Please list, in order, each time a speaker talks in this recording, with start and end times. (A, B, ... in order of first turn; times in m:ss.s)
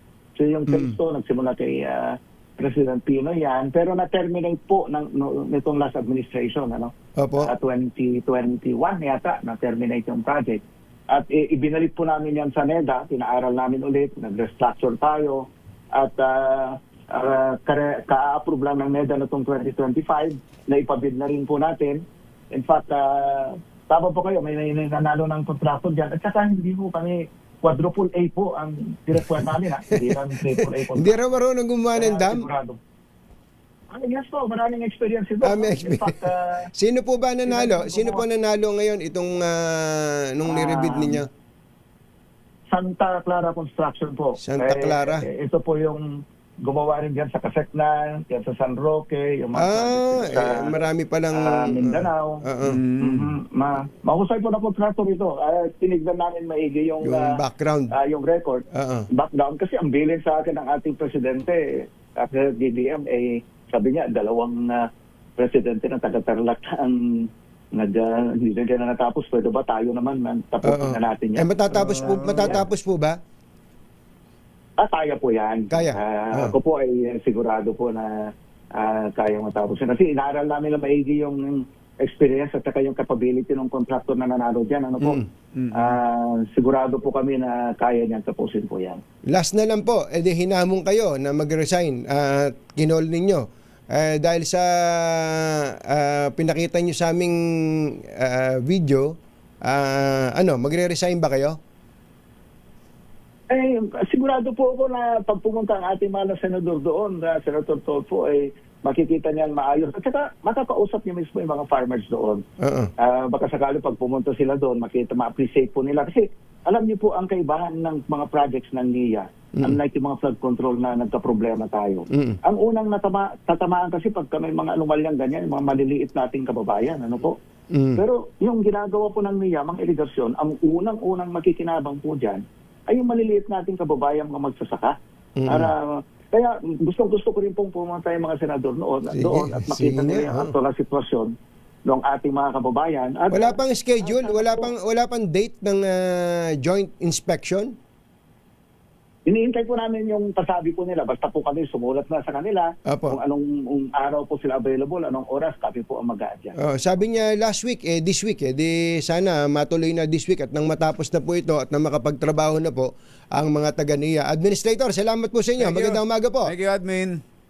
0:00.4-0:31.2 A
0:00.7-0:01.0 B
0:07.2-0:07.5 B
0:30.0-0:32.5 B
0:32.0-0:32.8 A
0:33.9-0:36.7 A
0:35.4-0:36.2 B
0:36.7-0:41.3 B
0:37.5-0:38.2 A
0:40.5-0:41.2 A
0:42.7-0:50.8 A
0:44.4-0:45.2 B
0:49.6-0:52.8 B
0:51.3-0:52.4 A
0:52.6-0:53.3 C
0:53.0-0:57.4 A
0:57.0-0:57.9 B
0:57.9-1:04.9 A
0:58.7-0:59.1 B
1:05.4-1:12.6 A
1:10.6-1:13.2 B
1:11.7-1:12.6 C
1:14.8-1:25.2 A
1:15.7-1:16.5 B
1:25.5-1:26.0 C
1:25.7-1:29.0 A
1:29.3-1:37.4 B
1:38.2-1:41.6 B
1:43.5-1:52.4 A
1:52.6-1:52.9 B
1:53.0-2:07.4 A
2:02.1-2:02.4 B
2:07.7-2:08.0 B
2:08.0-2:15.0 A
2:15.4-2:15.7 B
2:15.5-2:21.3 A
2:19.1-2:20.5 B
2:21.9-2:24.7 A
2:23.3-2:27.8 B
2:29.3-2:36.6 A
2:32.9-2:33.2 B
2:36.6-2:46.5 B
2:45.6-2:47.2 C